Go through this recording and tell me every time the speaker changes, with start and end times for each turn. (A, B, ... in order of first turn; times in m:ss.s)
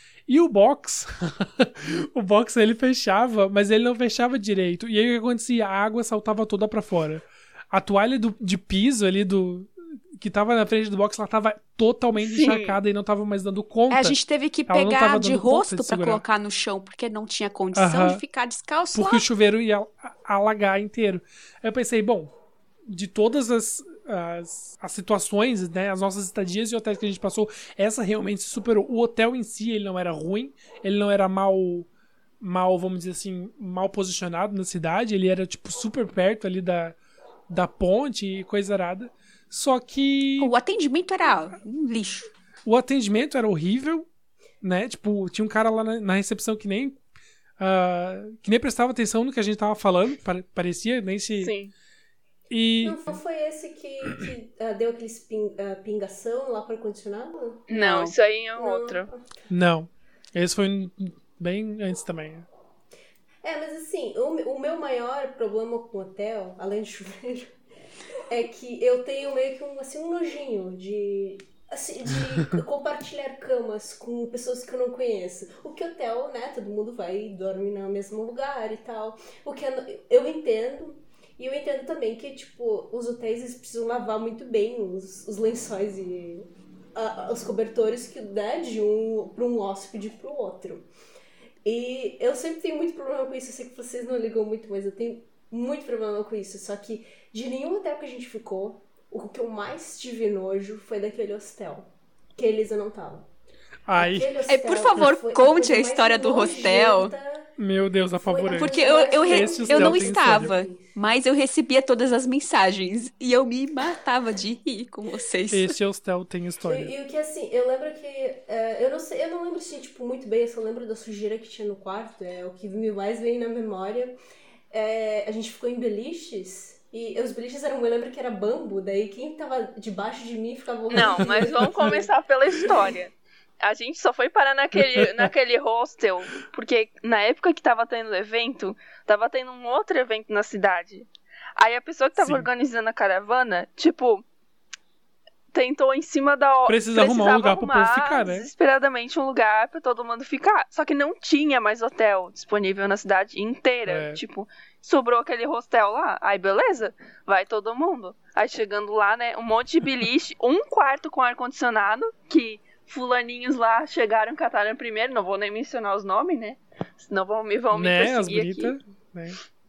0:00.3-0:16.2 A
0:12.2-0:12.8 B
0:13.9-0:19.2 C
0:17.7-0:18.2 A
0:18.9-0:22.3 A
0:22.9-0:31.9 A
0:32.4-0:37.0 A
0:37.5-0:40.5 A
0:40.4-0:42.3 C
0:42.6-0:44.1 A
0:44.6-0:47.0 A
0:47.6-0:51.6 A
0:51.4-0:51.7 B
0:52.5-0:53.2 A
0:52.8-0:57.7 D
0:57.7-0:59.1 B
0:57.7-0:58.1 C
0:58.6-0:59.2 D
0:59.5-1:02.5 A
1:03.4-1:07.5 D
1:08.2-1:30.8 D
1:31.6-1:43.3 D
1:43.8-1:44.4 A
1:44.0-1:47.5 D
1:44.5-1:47.1 C
1:47.6-1:50.5 A
1:48.2-1:50.9 D
1:48.5-1:55.8 C
1:55.5-1:56.9 A
1:56.7-2:04.1 D
2:04.7-2:12.1 D
2:10.9-2:24.2 B
2:15.0-2:15.3 A
2:22.1-2:22.5 A
2:25.5-2:48.8 B
2:26.6-2:28.5 A
2:33.8-2:34.2 A
2:47.7-2:49.4 A